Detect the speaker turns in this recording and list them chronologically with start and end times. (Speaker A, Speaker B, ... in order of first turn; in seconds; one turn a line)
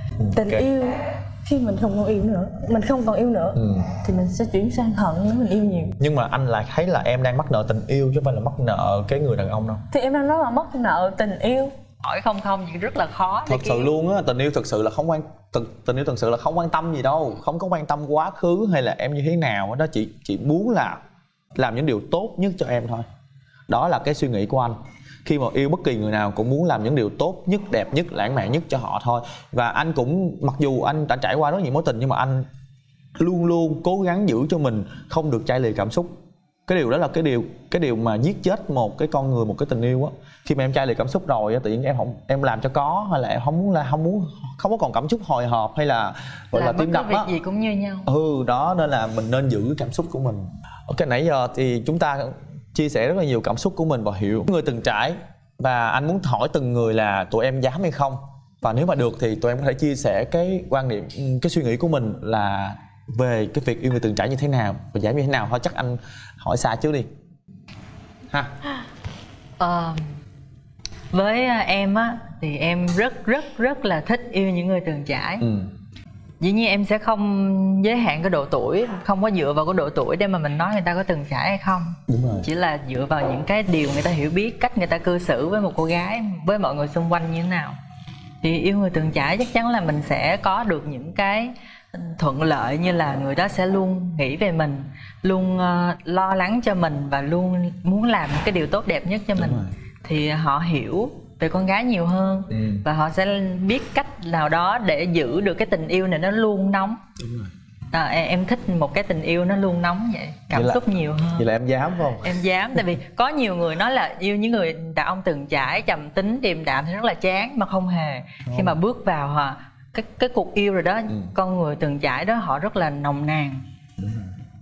Speaker A: 0.2-0.7
Speaker B: 0.3-5.9
Speaker A: 3.6-3.9
Speaker A: 6.0-9.8
Speaker B: 9.9-11.7
Speaker C: 12.0-13.9
Speaker A: 13.5-21.0
Speaker A: 21.5-23.1
Speaker A: 23.7-32.4
Speaker A: 33.2-36.1
Speaker A: 36.7-47.3
Speaker C: 46.5-48.1
Speaker A: 48.0-67.1
Speaker C: 69.6-70.1
Speaker C: 71.1-75.5
Speaker A: 75.4-75.7
Speaker C: 76.4-87.8
Speaker A: 82.1-82.5
Speaker C: 88.4-107.0
Speaker A: 99.3-99.7
Speaker A: 102.5-102.8
Speaker A: 107.2-107.5
Speaker C: 107.9-111.5
Speaker A: 110.5-112.3
Speaker C: 112.2-123.6
Speaker A: 118.5-118.8
Speaker A: 124.0-124.3